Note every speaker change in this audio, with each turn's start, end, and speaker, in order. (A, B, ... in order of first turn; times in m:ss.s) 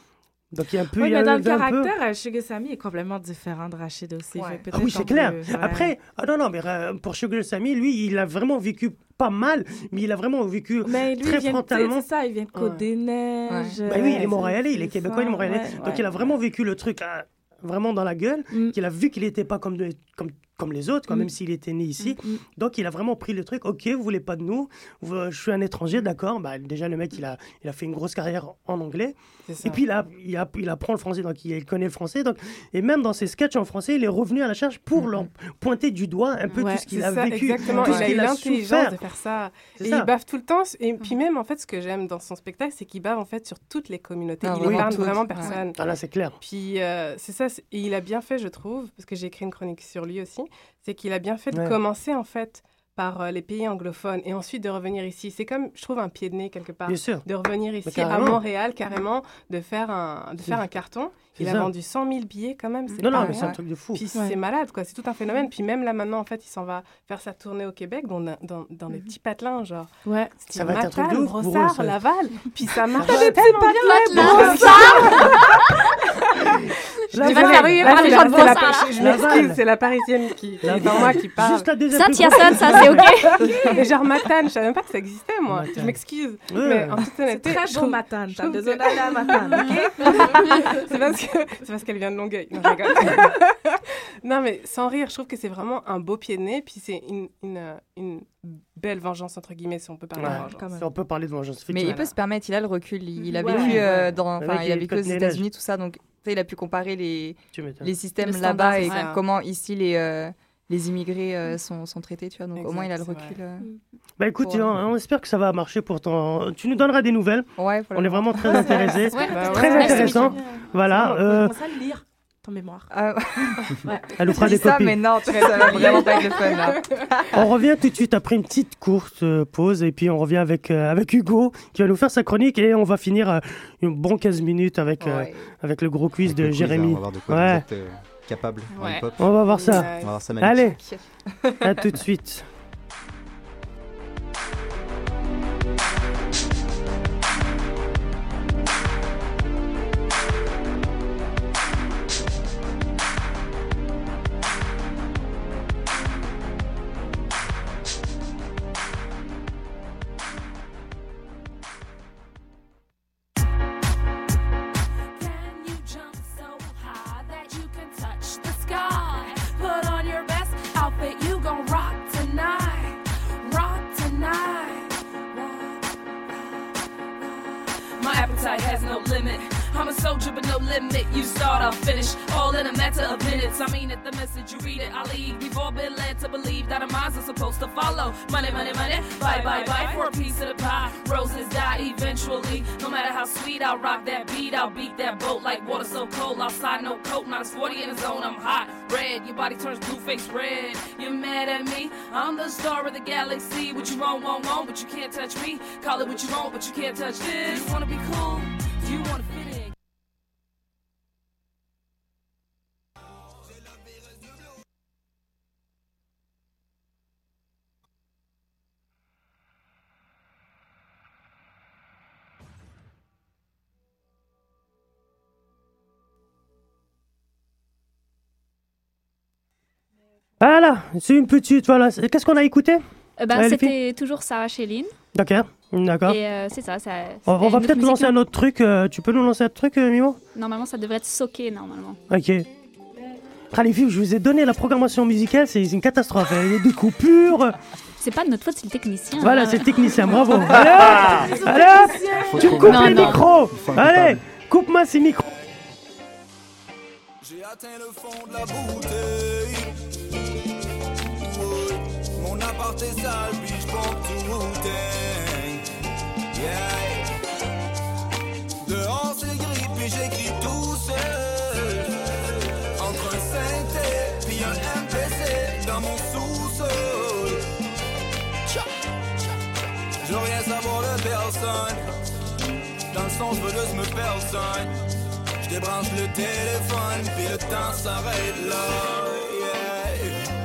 0:00.5-0:01.9 A
0:01.0-0:05.9 B
0:04.3-0:04.6 C
0:04.7-0:12.0 A
0:10.8-0:16.1 B
0:12.6-0:12.8 D
0:13.5-0:13.8 C
0:13.9-0:39.0 A
0:18.5-0:18.8 B
0:22.0-0:22.4 B
0:29.5-0:29.8 D
0:35.0-0:35.3 C
0:36.6-0:36.9 B
0:36.9-0:45.9 D
0:37.8-0:38.1 C
0:39.8-0:40.1 A
0:44.4-0:45.6 C
0:44.6-0:46.4 A
0:46.4-1:03.4 D
0:56.9-0:57.3 A
0:57.8-0:58.4 A
1:01.4-1:01.7 A
1:03.0-1:04.0 A
1:03.1-1:03.6 C
1:03.9-1:15.4 D
1:10.0-1:10.4 B
1:10.5-1:12.0 A
1:12.9-1:13.6 A
1:13.6-1:15.8 E
1:14.0-1:14.8 B
1:14.2-1:15.3 A
1:17.1-1:19.6 A
1:17.2-1:19.0 E
1:17.2-1:21.8 D
1:18.1-1:18.6 B
1:20.6-1:23.2 A
1:21.9-1:23.8 E
1:23.0-1:40.7 D
1:25.5-1:26.0 A
1:26.5-1:27.1 A
1:27.3-1:30.8 B
1:40.2-1:42.1 A
1:40.3-1:40.9 B
1:41.7-1:53.7 C
1:41.8-1:42.1 D
1:43.4-1:44.0 D
1:43.4-1:45.4 A
1:47.5-1:47.9 A
1:48.2-1:49.2 D
1:48.8-1:49.1 E
1:52.6-1:53.4 D
1:54.2-2:01.6 A
1:54.4-1:54.8 C
1:57.6-1:58.9 C
1:58.6-2:02.9 B
1:59.1-2:00.4 E
1:59.3-2:00.3 D
2:02.9-2:03.7 C
2:03.6-2:04.5 B
2:04.2-2:05.9 A
2:04.3-2:07.4 C
2:05.3-2:06.3 B
2:05.6-2:06.8 D
2:07.3-2:17.6 A
2:15.0-2:15.5 C
2:16.2-2:20.8 F
2:18.7-2:19.0 E
2:19.2-2:20.8 A
2:19.4-2:20.2 D
2:20.8-2:21.9 C
2:21.6-2:22.4 A
2:45.2-3:29.7 G
3:34.0-3:34.3 H
3:50.4-3:52.8 A
3:53.2-3:54.9 E
3:53.3-3:53.8 A
3:55.1-3:56.2 A
3:56.1-3:58.2 E
3:57.3-4:00.2 A
4:00.3-4:02.0 E
4:02.1-4:02.5 A
4:03.5-4:07.6 A
4:08.0-4:09.7 E
4:09.2-4:15.3 A
4:10.2-4:12.8 B
4:12.2-4:14.2 F
4:12.6-4:13.2 E
4:17.2-4:19.8 H
4:21.0-4:25.7 H
4:26.3-4:27.1 H
4:28.6-4:37.5 H
4:40.0-4:41.8 H
4:42.9-4:44.7 H
4:45.4-4:50.2 H